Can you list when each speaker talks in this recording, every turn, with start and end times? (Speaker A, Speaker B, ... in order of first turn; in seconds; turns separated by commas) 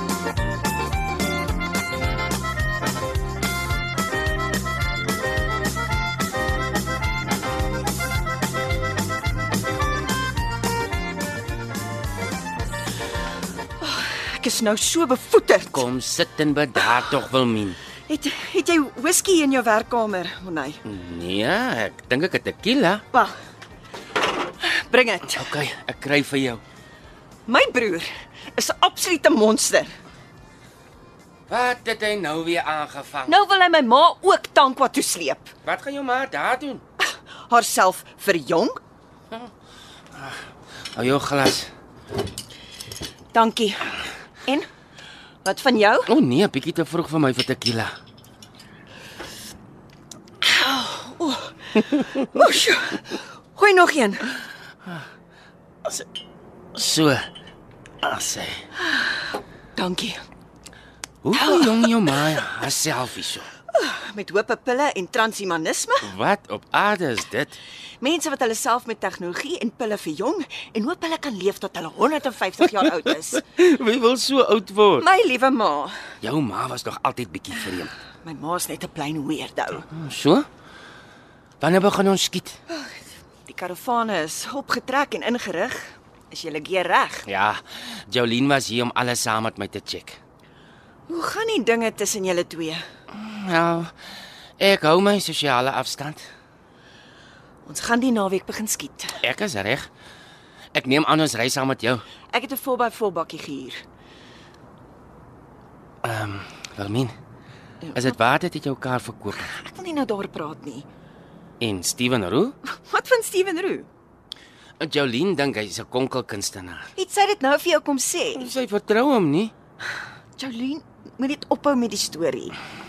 Speaker A: 13.8-15.8, Speaker B: 15.7-17.8, Speaker A: 18.1-20.8, Speaker B: 20.8-23.0, Speaker A: 24.6-25.5, Speaker B: 25.3-26.6, Speaker A: 27.5-29.9, Speaker B: 31.5-33.4, Speaker A: 33.2-35.5, Speaker B: 35.6-36.8, Speaker A: 37.0-38.8, Speaker B: 40.9-41.7, Speaker A: 43.3-43.9, Speaker A: 45.4-46.1, Speaker B: 46.1-47.9, Speaker A: 50.4-54.3, Speaker B: 56.7-57.3, Speaker B: 58.0-58.6, Speaker A: 58.8-59.1, Speaker A: 59.8-60.2, Speaker B: 61.2-63.5, Speaker A: 61.3-61.9, Speaker A: 63.7-66.1, Speaker B: 66.0-67.5, Speaker A: 68.0-73.4, Speaker B: 73.4-75.0, Speaker A: 75.0-76.0, Speaker B: 76.2-77.9, Speaker A: 78.2-79.9, Speaker B: 79.9-80.5, Speaker B: 81.6-82.5, Speaker A: 83.5-87.3, Speaker B: 87.2-90.2, Speaker A: 91.1-92.8, Speaker B: 93.1-93.9, Speaker B: 94.6-96.2, Speaker A: 97.6-99.2, Speaker B: 99.2-99.9, Speaker B: 100.7-102.0, Speaker A: 102.3-103.8, Speaker B: 106.0-107.1, Speaker A: 107.8-108.2, Speaker B: 107.9-109.5, Speaker A: 109.3-110.9, Speaker B: 111.6-112.5, Speaker A: 112.6-113.9, Speaker B: 114.8-116.9, Speaker A: 117.0-118.5, Speaker B: 118.3-119.5, Speaker A: 120.4-122.5